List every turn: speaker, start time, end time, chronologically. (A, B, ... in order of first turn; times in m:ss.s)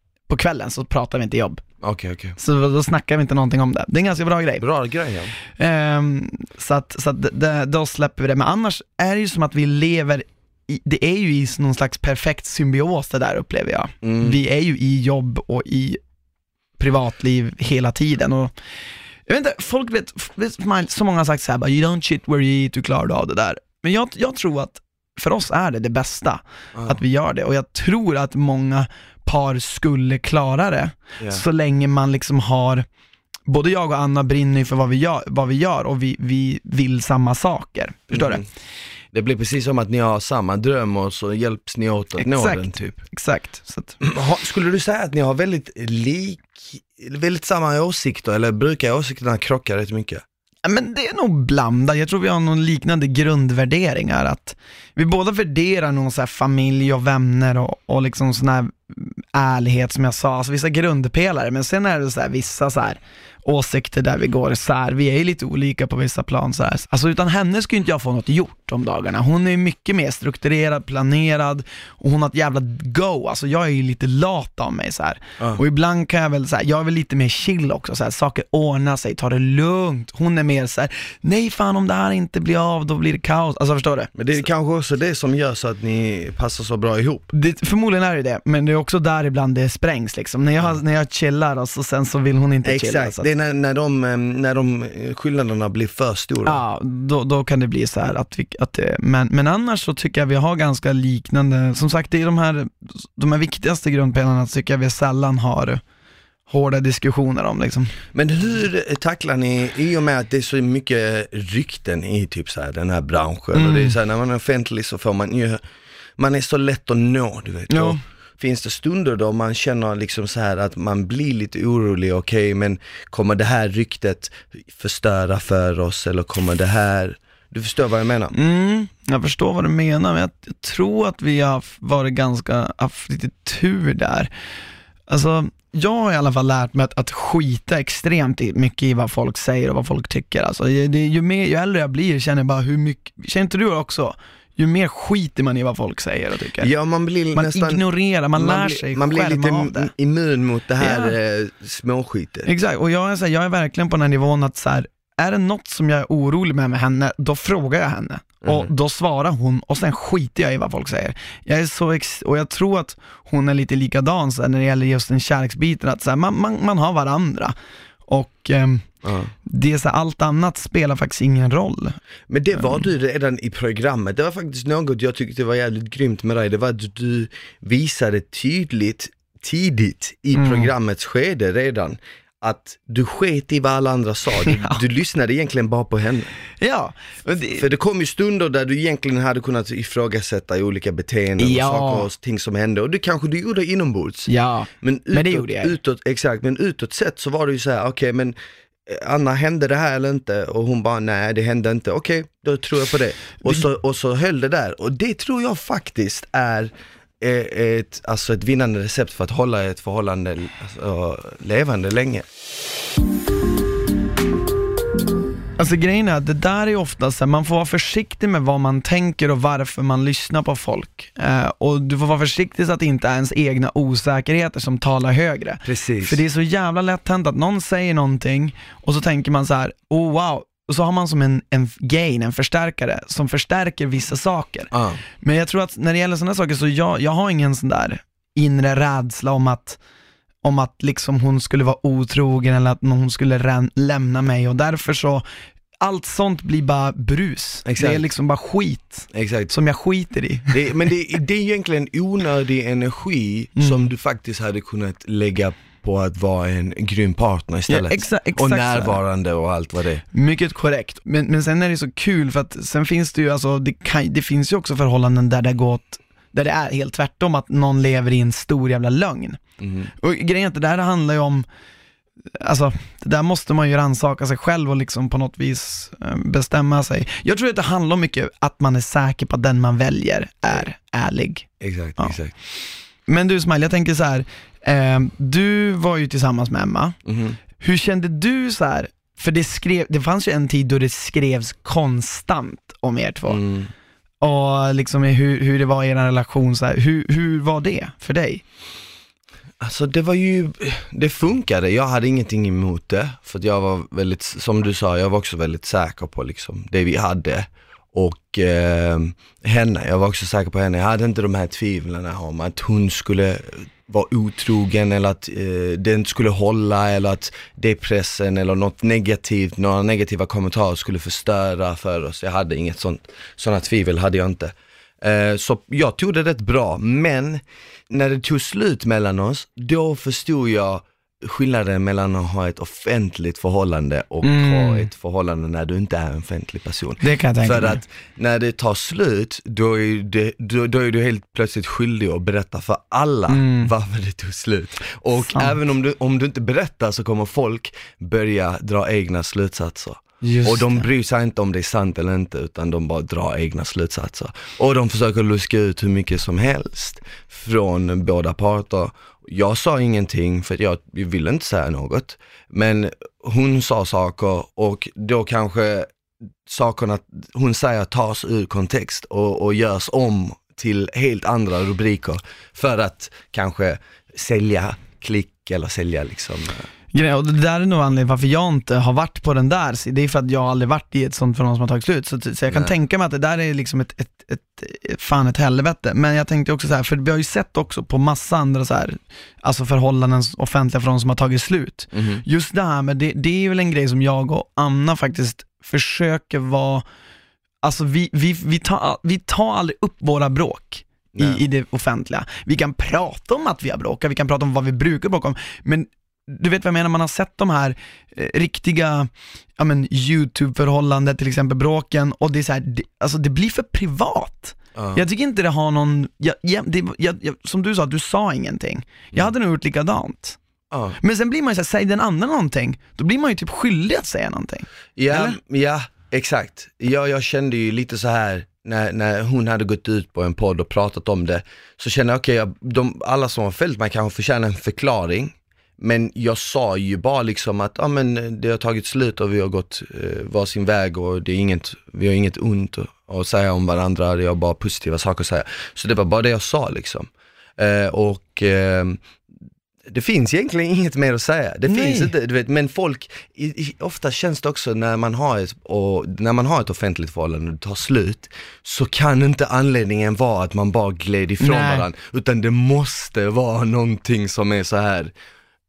0:00.3-0:01.6 A
0:01.8-0:02.4 B
0:02.4-0:04.6 A
0:04.6-0:05.3 B
0:05.6-0:16.0 A
0:14.0-0:14.4 B
0:16.8-0:18.5 A
0:19.3-0:32.9 A
0:33.5-0:38.4 A
0:38.1-0:38.5 B
0:39.1-0:43.0 B
0:42.2-0:44.0 A
0:44.0-0:50.2 B
0:50.6-1:24.1 A
1:24.1-1:27.3 B
1:27.3-1:33.2 A
1:32.6-1:36.6 B
1:36.4-1:45.8 A
1:46.5-1:47.9 A
1:48.1-1:55.6 B
1:53.5-1:54.0 A
1:56.2-2:08.4 B
1:57.7-1:58.0 A
2:08.3-2:14.3 A
2:15.1-2:26.7 A
2:26.6-2:27.8 B
2:27.3-2:29.9 A
2:28.4-2:32.5 B
2:30.8-2:31.1 A
2:32.5-2:47.6 A
2:38.4-2:38.7 B
2:48.1-2:48.9 A
2:49.0-2:49.3 B
2:49.5-2:52.0 A
2:52.3-3:06.3 B
2:52.6-2:52.8 A
3:00.3-3:00.7 A
3:04.5-3:04.8 A
3:06.6-3:07.6 A
3:07.6-3:18.4 B
3:11.4-3:12.1 A
3:14.3-3:15.8 A
3:18.9-3:32.3 B
3:35.6-3:59.8 A
3:45.6-3:46.2 B
3:54.7-3:55.0 B
4:00.4-4:05.2 A
4:05.8-4:10.6 A
4:07.6-4:08.0 B
4:09.1-4:09.5 B
4:10.5-4:20.0 B
4:17.7-4:19.0 A
4:20.1-4:29.4 A
4:29.6-4:29.9 B
4:30.0-4:31.5 A
4:32.4-4:41.5 A
4:41.6-4:42.3 B
4:43.1-4:47.0 A
4:47.0-4:47.4 B
4:47.6-4:53.4 A
4:53.3-4:53.7 B
4:54.2-4:58.4 A
4:59.6-6:05.9 B
5:34.2-5:34.9 A
5:37.0-5:37.8 A
5:43.3-5:43.7 A
5:45.2-5:45.6 A
5:50.2-5:50.8 A
6:06.5-6:16.7 B
6:16.9-6:36.8 A
6:22.5-6:22.7 B
6:31.9-6:32.2 B
6:37.6-7:00.4 A
6:41.1-6:41.4 B
6:54.8-6:55.0 B
7:00.7-7:01.0 B
7:01.0-7:05.4 A
7:05.0-7:29.0 B
7:29.9-7:45.1 B
7:31.7-7:32.1 A
7:41.4-7:41.9 A